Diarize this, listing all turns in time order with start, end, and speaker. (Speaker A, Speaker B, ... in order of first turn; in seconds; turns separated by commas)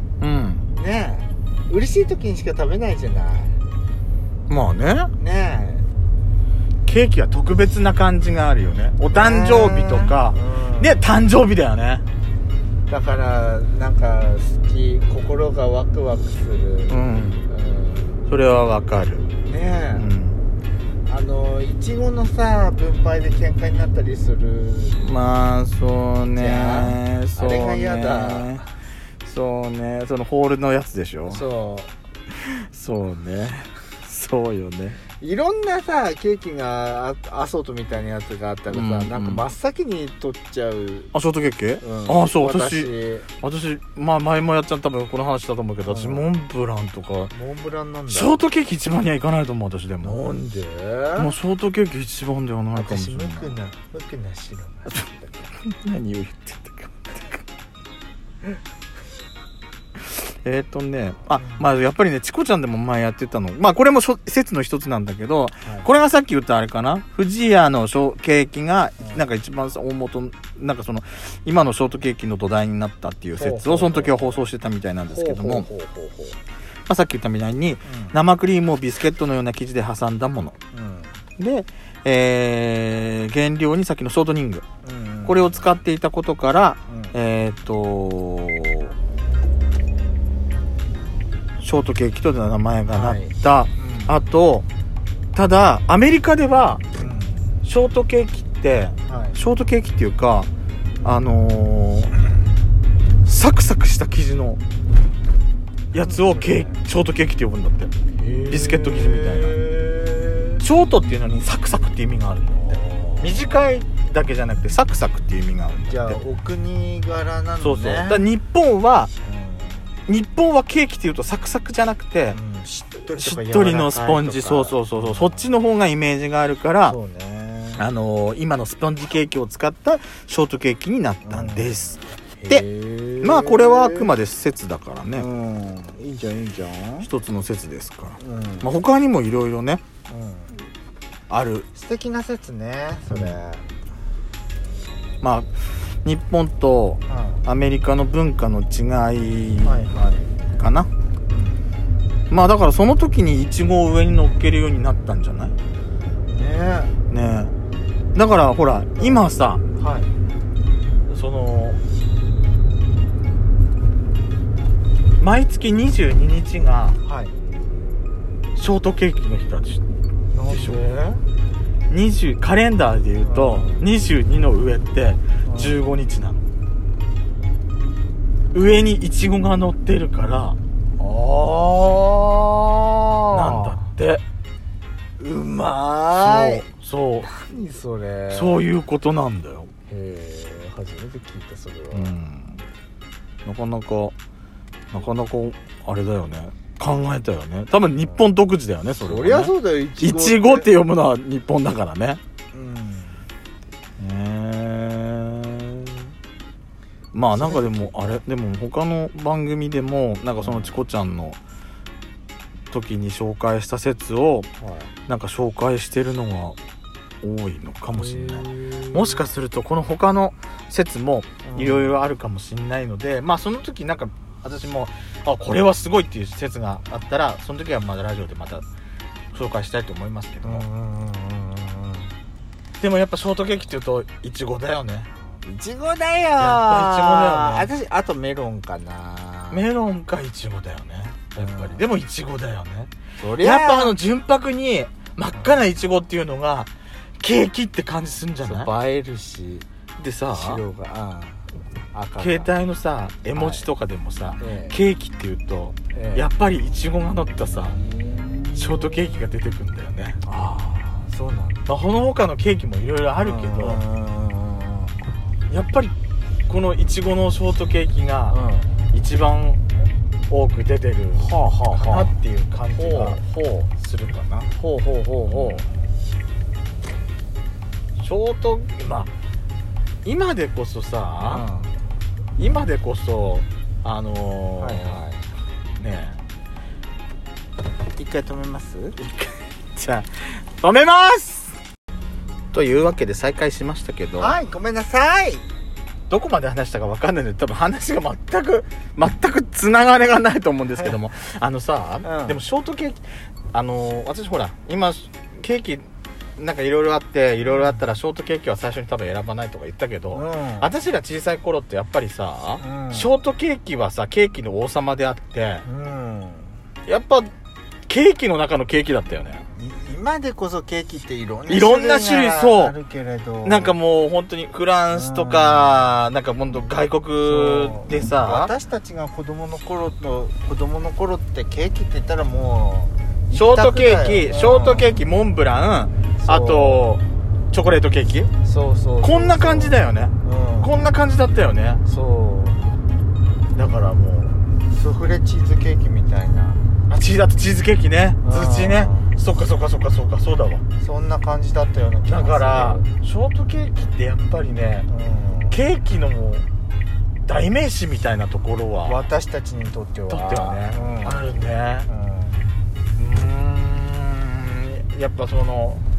Speaker A: 0.2-0.7, Speaker B: 0.8-3.6, Speaker A: 4.5-5.1, Speaker B: 5.2-5.8, Speaker A: 6.8-12.0, Speaker B: 9.1-11.1, Speaker B: 12.9-18.1, Speaker A: 16.9-17.4, Speaker A: 18.3-19.3, Speaker B: 19.4-20.1, Speaker A: 19.9-20.4, Speaker B: 21.1-25.0, Speaker A: 25.0-28.7, Speaker B: 26.4-28.5, Speaker A: 29.2-31.4, Speaker B: 31.3-31.9, Speaker A: 32.4-35.0, Speaker B: 35.2-41.1, Speaker A: 38.7-39.5, Speaker A: 41.1-47.3, Speaker B: 41.8-43.3, Speaker B: 45.8-46.2, Speaker B: 47.3-48.4, Speaker A: 48.1-50.2, Speaker B: 50.0-51.3, Speaker A: 51.1-53.5, Speaker B: 52.7-55.4, Speaker A: 54.9-57.4, Speaker A: 60.0-75.7, Speaker B: 61.4-61.7, Speaker B: 65.6-65.9, Speaker B: 69.0-69.2, Speaker B: 73.3-74.4, Speaker B: 75.1-76.3, Speaker A: 76.9-80.6, Speaker B: 77.8-78.2, Speaker B: 80.7-81.2, Speaker A: 81.4-84.6, Speaker B: 84.8-85.6, Speaker A: 85.2-88.9, Speaker B: 86.9-87.1, Speaker A: 91.6-94.7, Speaker B: 92.9-94.2, Speaker A: 95.3-96.9, Speaker B: 97.0-97.4, Speaker A: 97.6-100.5, Speaker B: 99.1-99.4, Speaker A: 101.0-102.1, Speaker A: 103.2-104.6, Speaker A: 105.9-107.9, Speaker B: 106.0-106.8, Speaker B: 108.2-110.6, Speaker A: 108.5-109.6, Speaker A: 110.6-116.2, Speaker B: 112.6-113.3, Speaker B: 115.9-118.2, Speaker A: 117.6-119.1, Speaker B: 119.2-120.0, Speaker A: 120.1-122.4, Speaker B: 122.3-125.5, Speaker A: 123.1-127.0, Speaker B: 126.8-127.8, Speaker A: 127.8-132.6, Speaker B: 131.2-134.1, Speaker A: 133.2-135.3, Speaker B: 135.1-137.1, Speaker A: 137.0-139.8, Speaker B: 138.2-138.7, Speaker B: 140.1-140.6, Speaker A: 141.3-141.7, Speaker B: 141.7-143.7, Speaker A: 143.1-143.4, Speaker A: 145.2-149.9, Speaker B: 147.1-147.4, Speaker B: 149.6-150.3, Speaker A: 150.6-150.9, Speaker B: 151.3-151.6, Speaker A: 152.3-155.5, Speaker B: 156.3-156.9, Speaker A: 157.1-157.5, Speaker A: 158.1-159.6, Speaker B: 159.0-159.2, Speaker B: 159.8-160.1, Speaker A: 161.1-161.8, Speaker A: 165.2-167.0, Speaker B: 167.0-167.3, Speaker A: 168.6-169.8, Speaker B: 170.3-171.2, Speaker A: 170.5-170.8, Speaker A: 171.9-176.4, Speaker B: 173.2-173.8, Speaker B: 175.4-175.8, Speaker A: 178.5-180.6, Speaker B: 181.0-183.8, Speaker A: 183.3-184.2, Speaker B: 185.2-186.7, Speaker A: 186.2-187.3, Speaker B: 187.2-188.6, Speaker A: 188.3-189.7, Speaker B: 189.9-192.1, Speaker A: 191.9-192.6, Speaker A: 193.4-194.1, Speaker A: 194.9-202.2, Speaker B: 199.0-200.7, Speaker B: 202.5-203.2, Speaker A: 204.0-206.1, Speaker A: 207.1-211.4, Speaker B: 207.3-208.2, Speaker B: 210.4-210.8, Speaker A: 212.7-214.5, Speaker B: 214.6-214.9, Speaker A: 215.1-216.6, Speaker A: 217.2-228.7, Speaker B: 217.9-219.3, Speaker B: 221.4-222.0, Speaker A: 229.3-230.7, Speaker B: 230.4-232.1, Speaker A: 232.8-235.1, Speaker B: 235.4-239.7, Speaker A: 236.4-237.7, Speaker A: 239.5-248.7, Speaker B: 241.3-241.8, Speaker B: 243.2-243.9, Speaker B: 248.4-249.7, Speaker A: 250.0-250.6, Speaker B: 250.3-252.5, Speaker A: 252.2-257.8, Speaker B: 253.3-253.7, Speaker B: 254.4-254.8, Speaker B: 255.9-256.3, Speaker A: 258.5-260.2, Speaker B: 260.2-261.7, Speaker A: 261.6-263.8, Speaker B: 263.1-265.0, Speaker A: 265.5-265.9, Speaker A: 266.5-268.4, Speaker B: 268.3-268.8, Speaker A: 268.9-269.6, Speaker A: 270.3-274.5, Speaker B: 271.1-272.1, Speaker B: 272.7-273.2, Speaker B: 274.5-275.6, Speaker A: 275.2-275.6, Speaker A: 278.0-279.1, Speaker A: 280.0-281.4, Speaker B: 281.2-281.7, Speaker A: 282.4-285.0, Speaker B: 284.6-285.2, Speaker A: 285.8-286.2, Speaker B: 287.9-289.0, Speaker A: 289.0-291.6, Speaker A: 292.5-294.4, Speaker B: 294.2-295.4, Speaker A: 296.1-315.6, Speaker B: 302.0-302.4, Speaker B: 310.1-310.7, Speaker B: 312.6-313.1, Speaker B: 315.6-316.5, Speaker A: 316.9-317.3, Speaker A: 317.9-319.4, Speaker B: 319.6-323.8, Speaker A: 321.5-322.8, Speaker A: 323.4-328.5, Speaker B: 324.9-325.9, Speaker B: 327.2-335.0, Speaker A: 333.3-338.3, Speaker B: 336.2-336.9, Speaker B: 338.4-340.9, Speaker A: 339.0-341.8, Speaker B: 341.8-342.8, Speaker A: 343.5-344.4, Speaker B: 344.7-346.7, Speaker A: 346.9-350.6, Speaker B: 348.2-349.1, Speaker B: 350.8-352.8, Speaker A: 352.1-354.9, Speaker B: 354.9-355.6, Speaker A: 355.5-356.4, Speaker A: 357.2-359.1, Speaker B: 358.8-361.3, Speaker A: 360.1-361.9, Speaker B: 361.9-362.4, Speaker A: 363.0-365.8